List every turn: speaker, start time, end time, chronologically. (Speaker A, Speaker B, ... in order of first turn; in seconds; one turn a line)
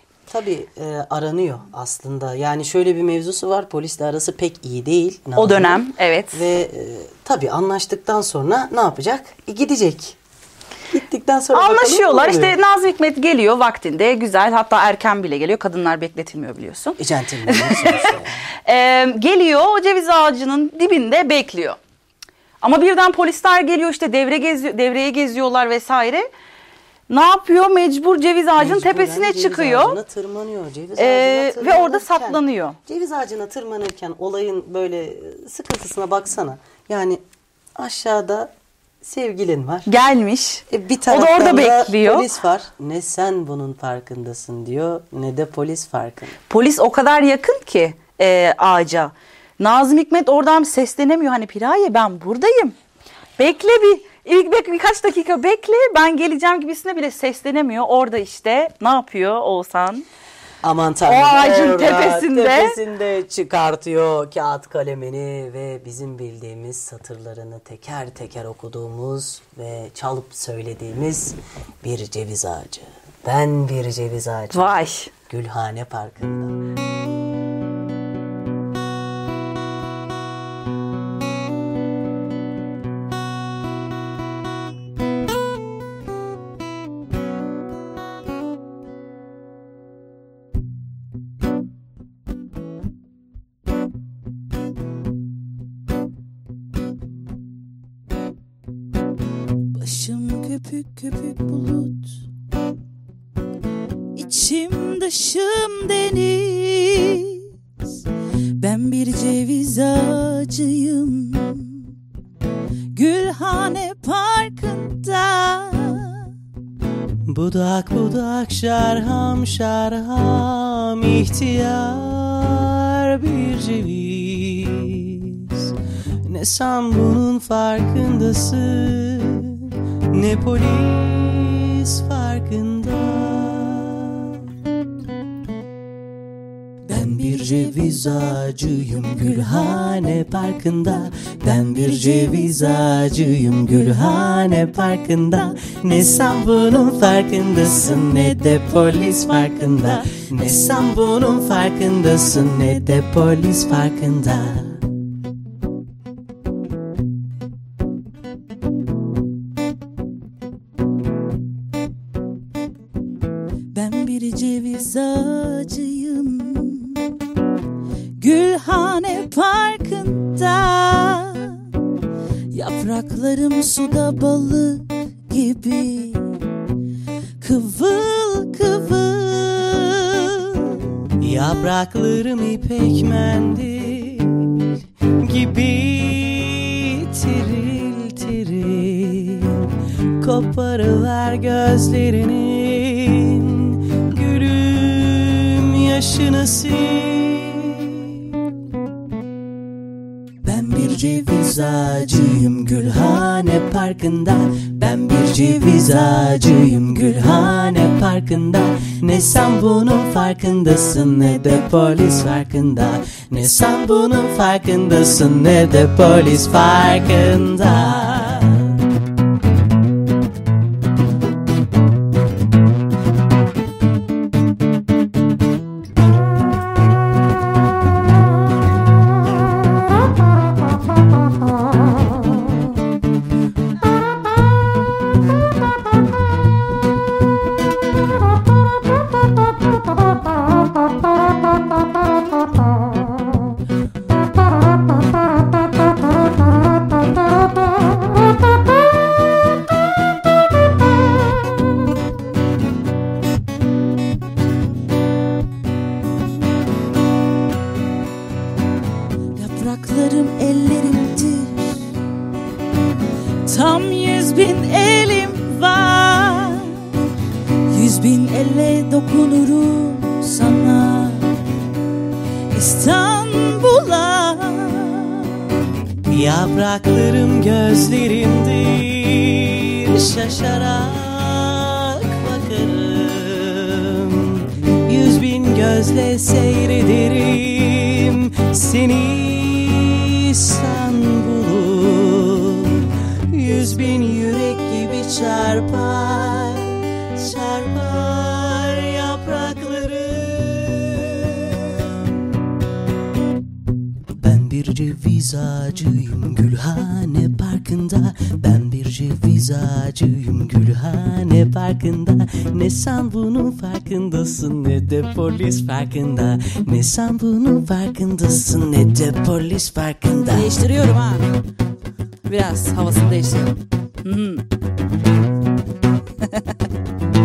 Speaker A: 0.3-10.2
Speaker B: 5.3-6.4
Speaker A: 10.9-12.6
Speaker B: 11.5-18.1
Speaker A: 17.0-18.4
Speaker B: 18.6-21.8
Speaker B: 22.6-26.3
Speaker B: 27.1-30.0
Speaker A: 28.6-37.2
Speaker B: 31.0-32.8
Speaker A: 37.8-38.5
Speaker A: 39.0-39.9
Speaker B: 39.9-42.3
Speaker A: 40.7-46.4
Speaker B: 46.5-52.7
Speaker B: 53.4-60.0
Speaker A: 60.6-74.8
Speaker B: 61.0-62.8
Speaker B: 74.5-75.1
Speaker A: 75.3-76.5
Speaker C: 99.7-102.2
Speaker C: 104.1-107.5
Speaker C: 108.6-111.9
Speaker C: 112.9-116.3
Speaker A: 117.2-125.7
Speaker A: 126.2-134.4
Speaker A: 136.8-154.8
Speaker C: 163.7-167.1
Speaker C: 168.2-171.6
Speaker C: 172.5-176.4
Speaker C: 177.4-180.8
Speaker A: 181.2-198.4
Speaker A: 200.4-218.8
Speaker C: 259.3-261.9
Speaker C: 263.4-266.9
Speaker C: 267.7-271.3
Speaker C: 272.5-275.4
Speaker A: 276.1-302.0
Speaker A: 304.2-320.6
Speaker B: 320.3-321.3
Speaker B: 322.2-324.4